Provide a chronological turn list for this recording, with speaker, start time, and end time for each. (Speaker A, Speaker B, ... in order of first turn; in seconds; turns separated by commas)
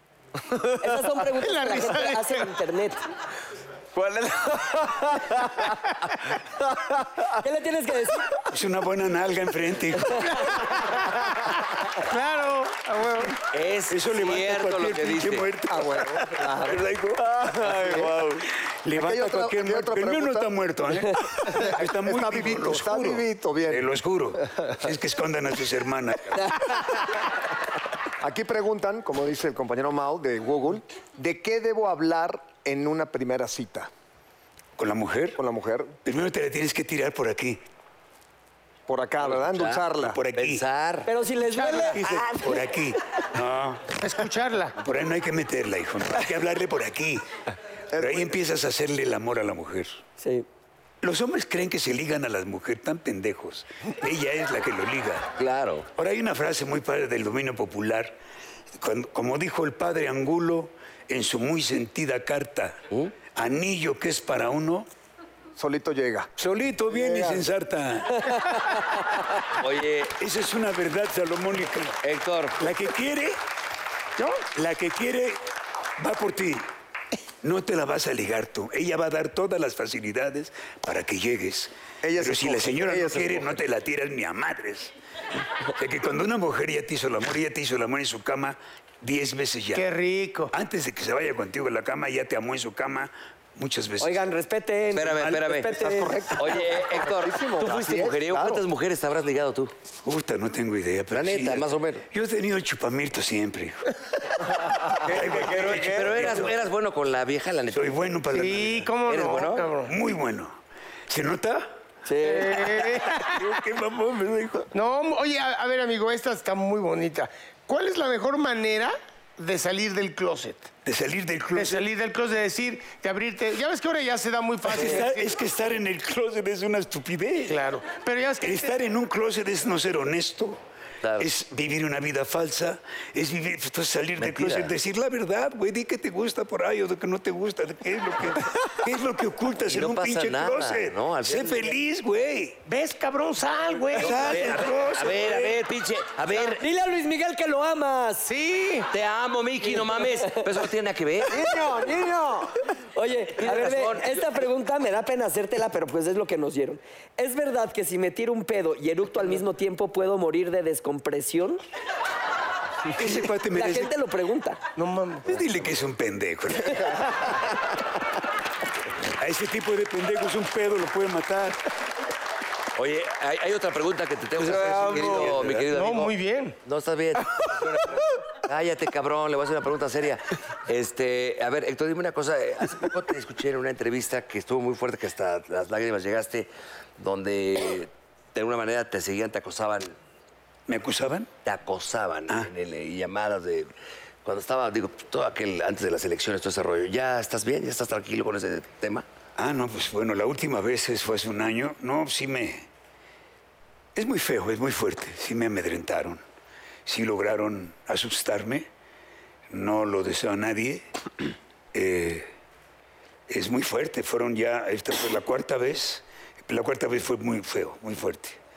Speaker A: 0.4-1.3, Speaker B: 0.8-3.0, Speaker C: 1.4-2.4, Speaker A: 3.9-5.9, Speaker A: 6.6-7.3, Speaker B: 7.4-8.4, Speaker D: 8.5-10.6, Speaker C: 10.2-11.1, Speaker C: 11.9-13.4, Speaker E: 13.5-15.5, Speaker D: 13.9-26.9, Speaker F: 15.7-16.8, Speaker A: 17.4-18.1, Speaker F: 17.5-18.1, Speaker F: 18.9-20.5, Speaker F: 21.4-23.9, Speaker F: 28.2-33.9, Speaker D: 34.8-35.4, Speaker F: 35.4-36.0, Speaker D: 36.0-37.6, Speaker F: 38.9-40.2, Speaker E: 39.3-41.1, Speaker D: 40.0-40.6, Speaker B: 41.1-42.7, Speaker C: 41.5-42.0, Speaker D: 41.9-44.0, Speaker C: 44.0-44.8, Speaker D: 44.8-47.3, Speaker F: 47.9-48.4, Speaker D: 48.0-50.0, Speaker B: 50.2-50.5, Speaker D: 51.0-55.3, Speaker E: 55.4-55.9, Speaker D: 56.0-58.2, Speaker D: 58.8-64.9, Speaker F: 65.6-66.3, Speaker D: 66.4-68.8, Speaker F: 66.9-67.5, Speaker E: 69.5-70.2, Speaker D: 70.2-72.0, Speaker E: 72.0-72.6, Speaker D: 72.6-73.4, Speaker D: 74.3-75.4, Speaker D: 76.0-76.7, Speaker D: 77.4-84.9, Speaker F: 82.0-83.6, Speaker D: 85.8-89.9, Speaker C: 89.7-90.5, Speaker D: 90.5-94.3, Speaker B: 94.0-96.3, Speaker E: 94.9-95.7, Speaker F: 95.8-98.6, Speaker E: 96.4-99.7, Speaker D: 100.0-103.9, Speaker E: 101.1-102.0, Speaker D: 104.9-106.6, Speaker F: 105.0-106.4, Speaker E: 105.3-108.0, Speaker D: 107.7-108.9, Speaker C: 108.3-109.9, Speaker E: 109.1-109.7, Speaker D: 109.8-111.7, Speaker B: 112.1-112.6, Speaker C: 112.2-113.4, Speaker D: 112.5-114.7, Speaker C: 114.7-120.7, Speaker D: 120.8-121.8, Speaker C: 121.5-125.4, Speaker D: 124.7-127.7, Speaker C: 127.5-128.8, Speaker D: 128.4-130.6, Speaker E: 131.0-131.3, Speaker D: 131.2-142.6, Speaker E: 134.2-134.7, Speaker E: 139.7-141.8, Speaker C: 142.7-144.6, Speaker D: 143.9-145.5, Speaker E: 144.0-146.6, Speaker B: 146.6-148.3, Speaker C: 148.2-148.9, Speaker E: 148.9-151.4, Speaker F: 151.3-152.5, Speaker B: 152.9-161.6, Speaker E: 153.4-154.4, Speaker D: 162.9-163.9, Speaker B: 163.5-164.6, Speaker C: 164.8-165.3, Speaker D: 165.3-167.4, Speaker D: 169.2-171.6, Speaker E: 172.8-190.0, Speaker D: 174.4-175.7, Speaker A: 174.6-175.6, Speaker C: 175.7-176.6, Speaker D: 190.7-191.3, Speaker E: 191.4-193.7, Speaker E: 194.2-199.1, Speaker D: 199.4-202.7, Speaker D: 203.9-206.2, Speaker D: 206.8-208.7, Speaker D: 209.5-210.8, Speaker D: 211.7-212.3, Speaker D: 213.3-218.4